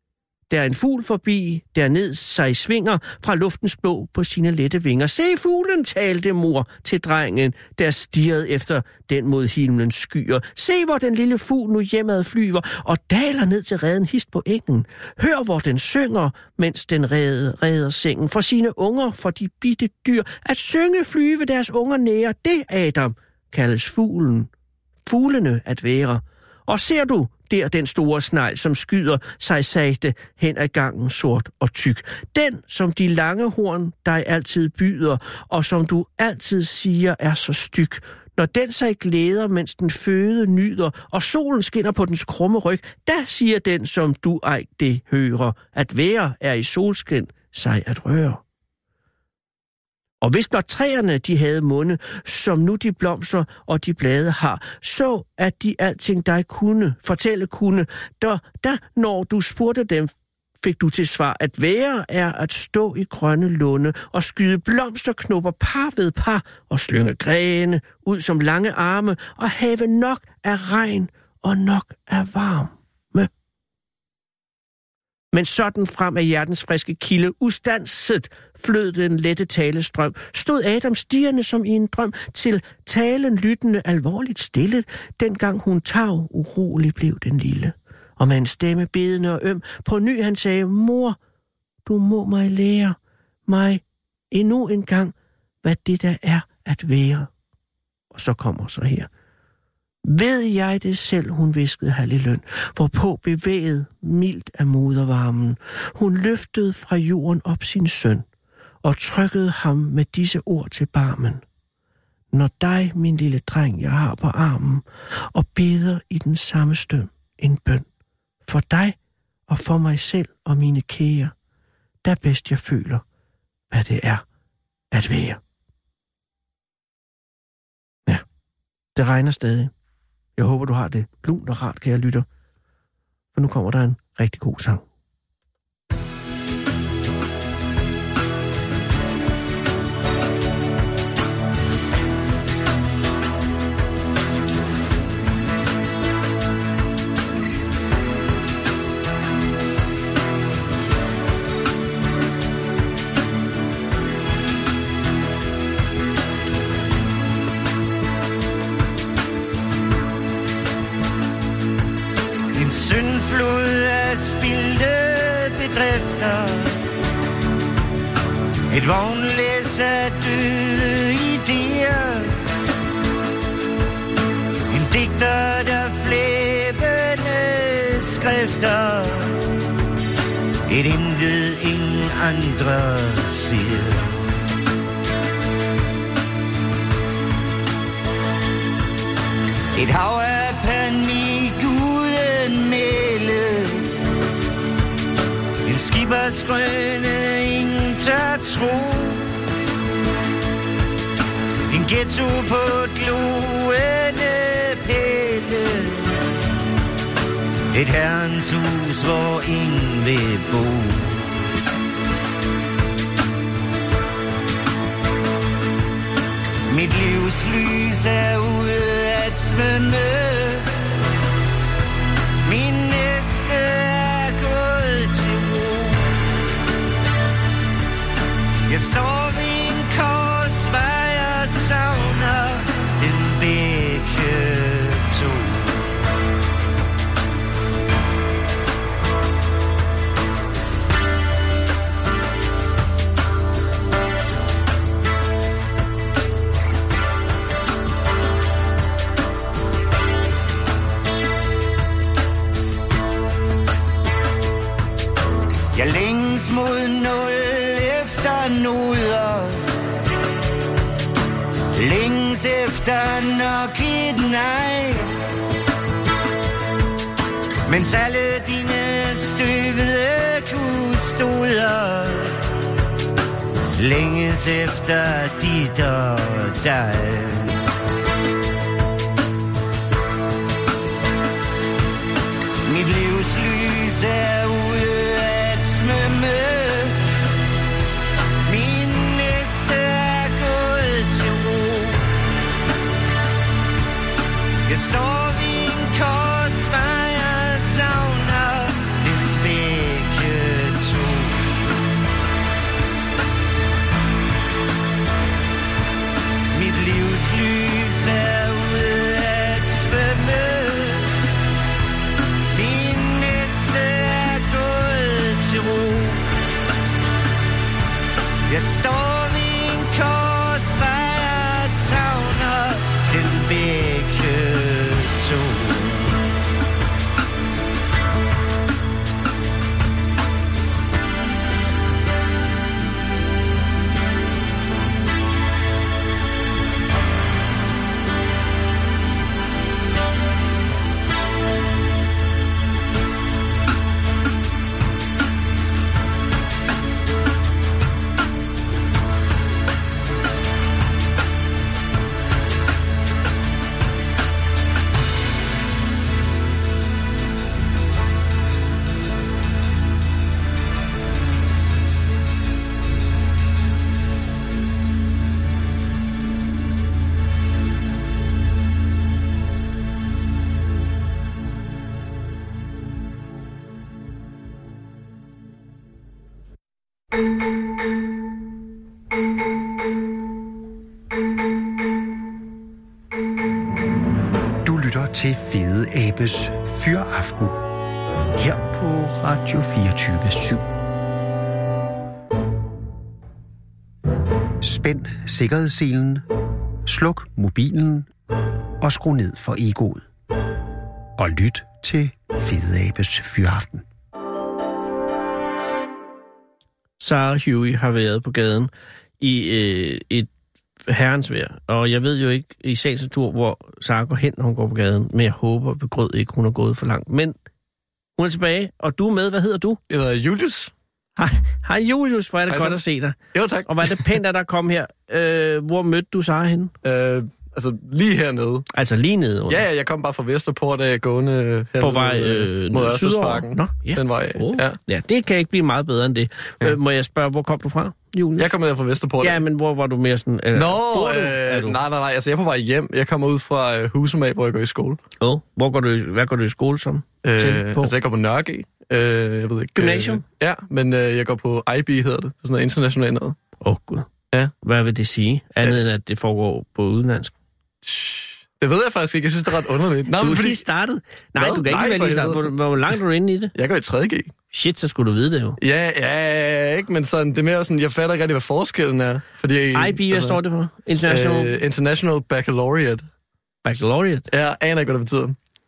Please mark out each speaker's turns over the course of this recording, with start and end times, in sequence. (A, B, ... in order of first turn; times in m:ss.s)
0:00.5-0:24.5 A
0:25.0-0:48.4 A
0:50.2-1:13.3 A
1:15.3-1:31.2 A
1:31.8-1:37.3 A
1:38.1-1:39.1 A
1:40.0-1:48.2 A
1:48.8-1:51.4 A
1:52.3-1:57.8 A
1:58.4-1:59.0 A
1:59.5-2:01.3 A
2:02.0-2:03.0 A
2:03.7-2:04.2 A
2:04.9-2:05.4 A
2:09.0-2:09.7 A
2:10.4-2:12.2 A
2:13.3-2:14.8 A
2:42.5-2:46.8 B
2:48.7-2:52.4 B
2:54.7-2:59.5 B
3:00.7-3:04.2 B
3:09.7-3:14.0 B
3:15.6-3:19.4 B
3:21.7-3:26.2 B
3:27.7-3:31.4 B
3:36.7-3:40.8 B
3:42.4-3:46.2 B
3:48.7-3:55.9 B
4:15.7-4:19.7 B
4:21.7-4:25.1 B
4:27.7-4:32.4 B
4:33.8-4:37.6 B
4:42.6-4:47.0 B
4:48.4-4:52.1 B
4:54.7-5:01.5 B
5:06.5-5:11.1 B
5:12.5-5:16.3 B
5:18.5-5:26.2 B
6:24.6-6:27.6 C
6:28.3-6:30.6 C
6:34.6-6:36.2 C
6:36.8-6:38.1 C
6:38.8-6:40.0 C
6:41.2-6:43.8 C
6:47.0-6:50.3 A
6:50.8-6:57.3 A
6:58.2-6:59.8 A
6:59.9-7:00.7 D
7:01.2-7:06.7 A
7:02.5-7:04.1 D
7:06.8-7:08.7 D
7:08.7-7:09.6 A
7:09.5-7:14.8 D
7:11.8-7:18.5 A
7:18.4-7:19.4 D
7:19.2-7:21.8 A
7:20.5-7:25.0 D
7:25.2-7:27.9 A
7:27.2-7:33.4 D
7:29.8-7:30.2 A
7:33.6-7:34.1 A
7:34.6-7:37.3 A
7:37.8-7:40.6 D
7:40.2-7:43.5 A
7:41.4-7:42.5 D
7:43.6-7:44.3 D
7:44.5-7:45.6 A
7:45.6-7:50.4 D
7:49.7-7:51.6 A
7:51.1-7:53.0 D
7:53.6-7:54.3 A
7:54.3-7:55.4 D